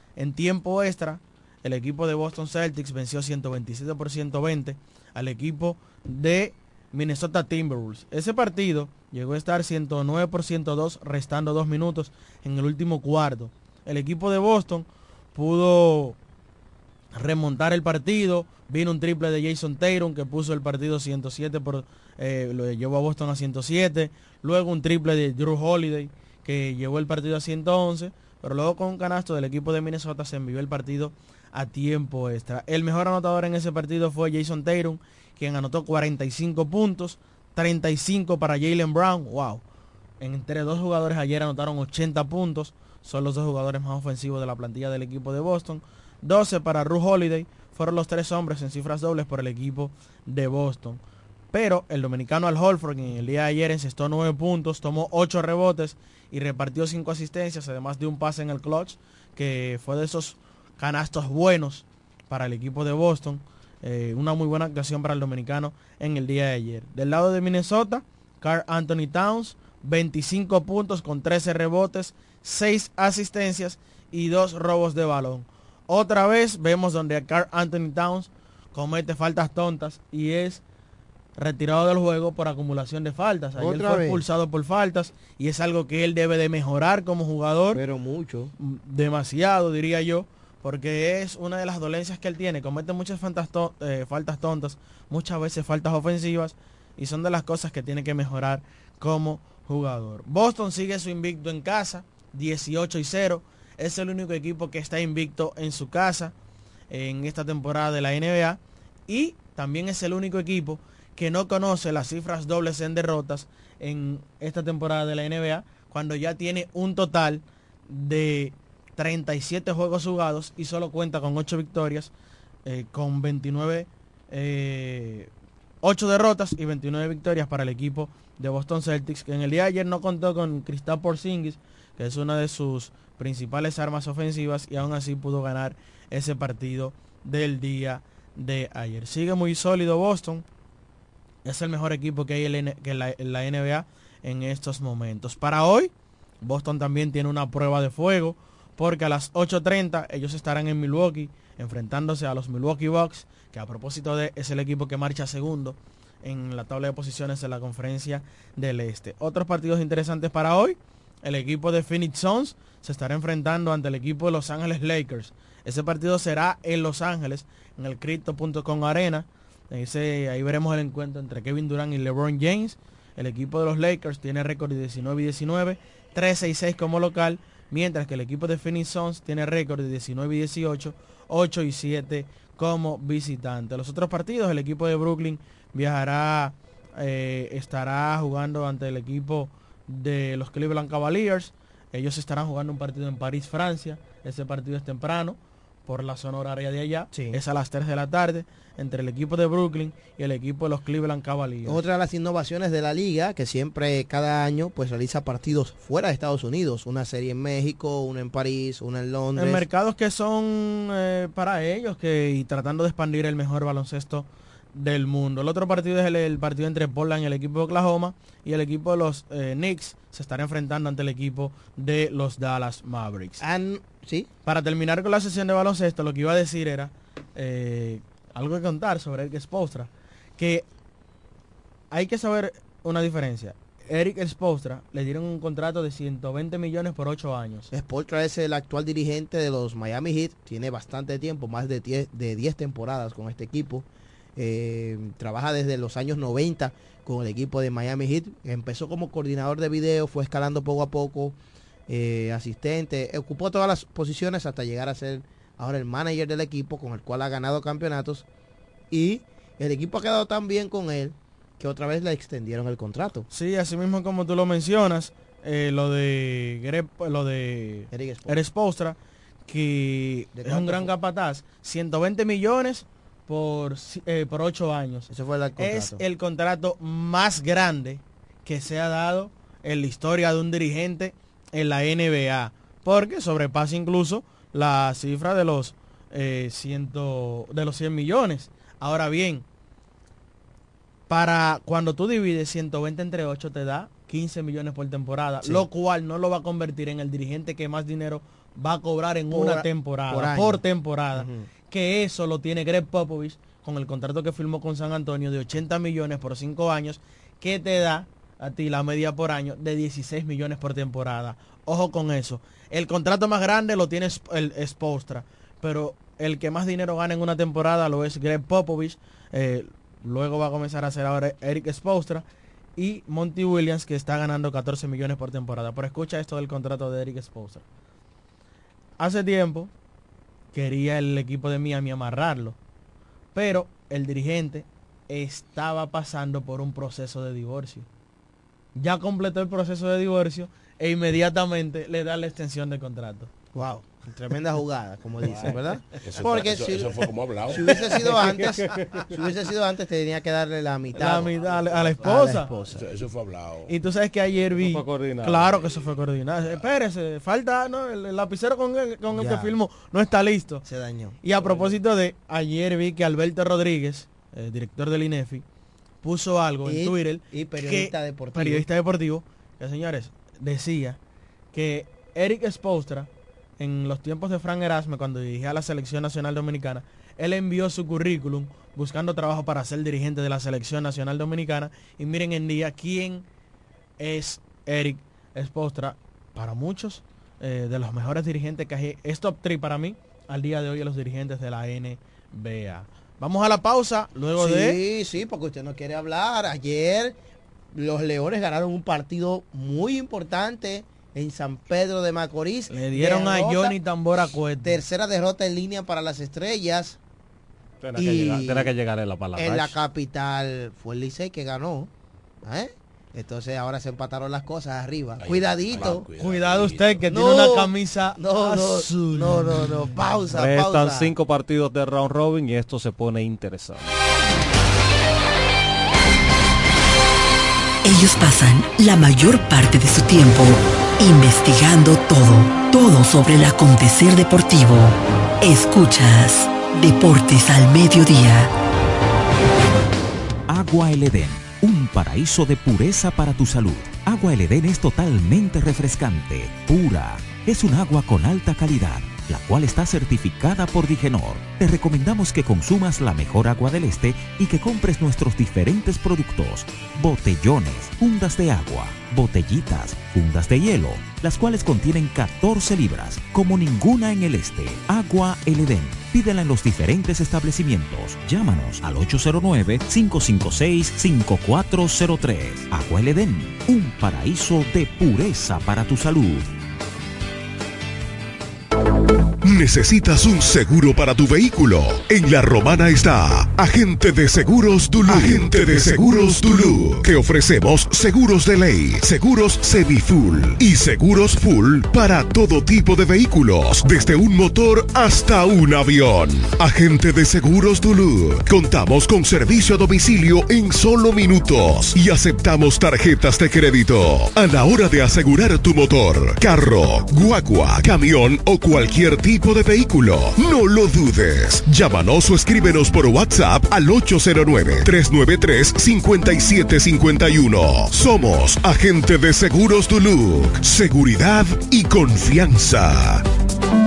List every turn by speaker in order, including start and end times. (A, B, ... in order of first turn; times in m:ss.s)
0:00.2-0:16.2 A
0:17.1-0:39.6 A
0:40.2-0:51.0 A
0:51.5-1:20.6 A
1:21.4-1:27.8 A
1:23.6-1:24.2 B
1:27.7-1:28.5 B
1:28.6-1:46.3 A
1:46.9-2:02.1 A
2:02.6-2:05.3 A
2:05.8-2:20.4 A
2:21.4-2:25.9 A
2:26.4-3:21.8 A
3:17.1-3:17.4 B
3:21.6-3:29.6 B
3:29.4-3:43.4 A
3:43.4-3:44.3 B
3:44.4-3:50.6 A
3:51.9-3:57.7 A
3:57.7-4:11.4 B
4:11.9-4:18.2 B
4:18.9-4:23.3 B
4:23.3-4:49.4 A
4:27.9-4:28.4 B
4:30.3-4:30.9 B
4:35.1-4:36.0 B
4:51.1-5:22.2 A
4:59.3-5:00.6 B
5:01.1-5:01.5 B
5:22.8-5:27.6 A
5:29.0-5:29.7 A
5:30.5-5:32.6 A
5:33.3-5:37.8 A
5:38.8-5:43.3 A
5:43.5-5:51.4 B
5:45.3-5:45.6 C
5:46.0-5:47.7 D
5:48.0-5:49.1 C
5:50.9-5:52.5 A
5:52.0-5:52.9 B
5:52.7-5:53.7 D
5:53.7-6:00.6 A
5:54.5-5:55.6 C
5:55.5-5:55.9 D
5:59.1-5:59.5 B
6:00.6-6:01.2 B
6:01.2-6:05.4 A
6:01.4-6:01.7 C
6:06.0-6:11.0 A
6:06.6-6:08.6 B
6:11.5-6:23.2 A
6:24.0-6:34.8 A
6:34.4-6:37.1 B
6:37.7-6:43.8 B
6:42.7-6:44.8 A
6:44.6-6:47.0 B
6:47.8-6:49.7 C
6:47.9-6:48.7 B
6:49.4-6:51.9 B
6:52.4-6:56.0 B
6:55.2-6:57.0 D
6:55.8-6:59.8 A
6:57.1-7:01.1 B
7:00.3-7:03.9 C
7:07.8-7:18.5 E
7:20.5-7:56.4 F
7:59.4-8:43.2 G